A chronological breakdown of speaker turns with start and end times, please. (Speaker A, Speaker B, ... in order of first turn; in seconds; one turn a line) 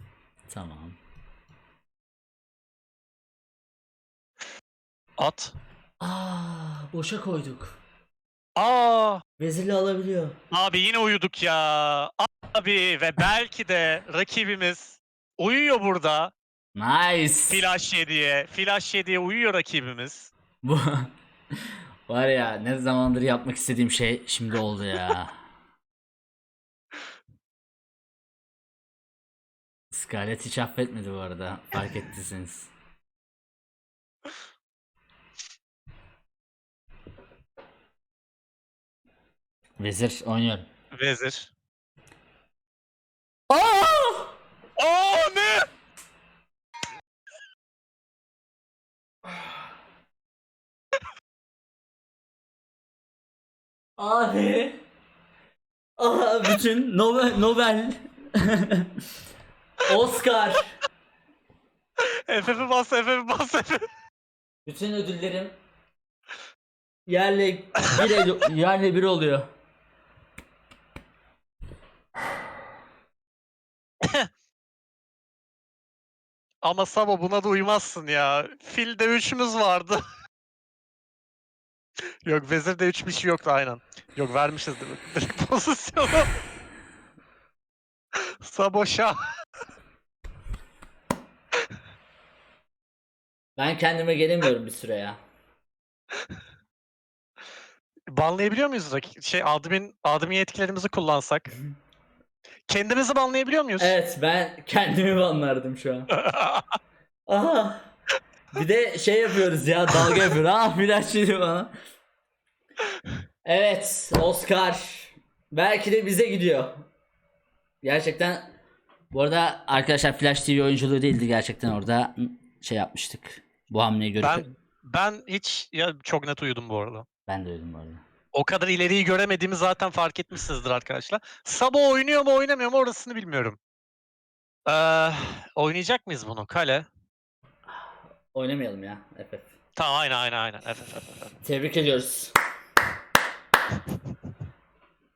Speaker A: 0.5-1.0
Speaker B: 5.2-5.5
Speaker A: 6.0-7.8
Speaker B: 8.6-9.2
Speaker A: 9.4-10.3
Speaker B: 10.5-16.3
Speaker A: 16.7-17.6
Speaker B: 17.5-20.3
Speaker A: 20.6-21.1
Speaker A: 22.1-25.3
Speaker A: 29.9-32.7
Speaker A: 39.8-40.6
Speaker B: 40.9-41.5
Speaker A: 43.5-44.3
Speaker B: 44.8-45.6
Speaker A: 54.0-54.8
Speaker A: 56.0-58.9
Speaker A: 59.8-60.8
Speaker B: 62.3-63.8
Speaker A: 64.7-65.5
Speaker A: 67.1-69.5
Speaker B: 76.6-80.0
Speaker B: 82.2-86.3
Speaker B: 88.2-89.2
Speaker A: 93.6-95.2
Speaker B: 98.1-101.5
Speaker B: 102.7-103.9
Speaker A: 103.8-106.1
Speaker B: 106.1-106.6
Speaker A: 107.3-107.9
Speaker A: 108.5-111.7
Speaker A: 113.4-116.8
Speaker A: 117.8-118.4
Speaker A: 119.1-124.5
Speaker B: 124.2-127.0
Speaker A: 127.3-128.0
Speaker B: 128.3-133.6
Speaker B: 134.7-136.9
Speaker A: 138.3-139.5
Speaker B: 139.8-141.3
Speaker A: 141.4-142.3